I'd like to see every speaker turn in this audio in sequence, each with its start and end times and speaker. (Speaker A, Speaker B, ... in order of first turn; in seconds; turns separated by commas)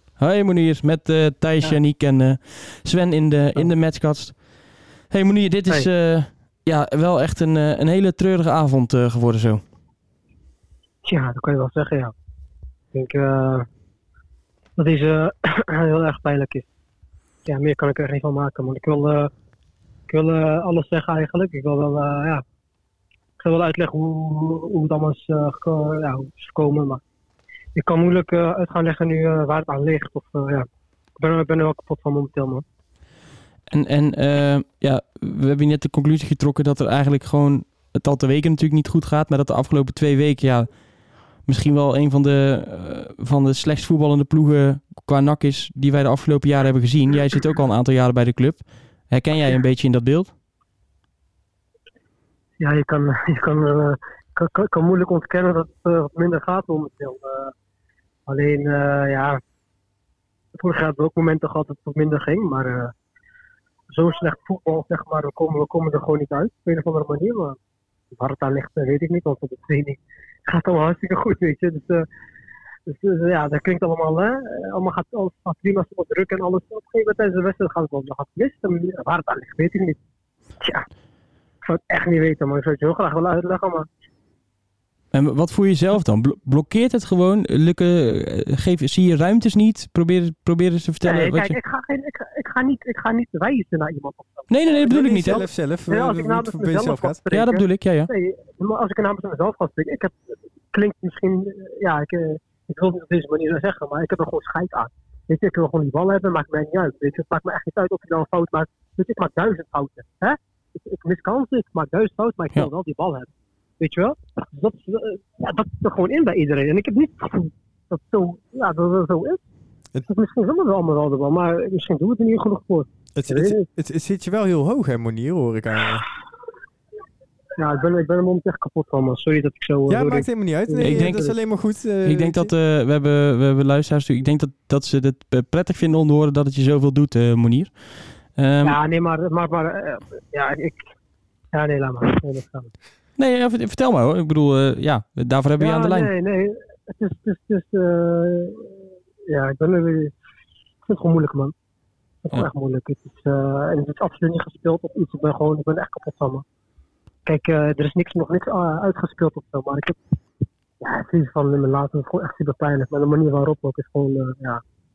Speaker A: 0.2-9.6, Speaker B: 11.1-12.1, Speaker B: 12.9-13.7, Speaker B: 14.8-16.7, Speaker B: 17.5-19.3, Speaker B: 20.1-22.4, Speaker B: 23.4-27.0, Speaker B: 27.8-30.7, Speaker B: 31.2-32.6, Speaker A: 33.7-50.4, Speaker B: 52.6-57.5, Speaker B: 58.3-59.4, Speaker B: 60.5-62.9, Speaker B: 63.9-67.6, Speaker B: 68.2-72.0, Speaker B: 72.9-80.0, Speaker B: 81.6-83.9, Speaker A: 85.1-91.6, Speaker B: 91.0-100.2, Speaker A: 94.5-95.5, Speaker C: 94.8-97.3, Speaker A: 97.3-98.1, Speaker B: 100.7-113.3, Speaker B: 113.8-119.4, Speaker B: 120.1-123.7, Speaker C: 123.2-126.1, Speaker B: 127.6-131.4, Speaker C: 129.9-132.5, Speaker A: 130.8-131.3, Speaker A: 132.1-138.8, Speaker B: 138.6-140.8, Speaker B: 141.5-142.7, Speaker A: 143.2-146.1, Speaker B: 145.6-150.2, Speaker B: 150.9-151.5, Speaker B: 152.2-156.4, Speaker B: 157.3-160.0, Speaker B: 160.8-164.6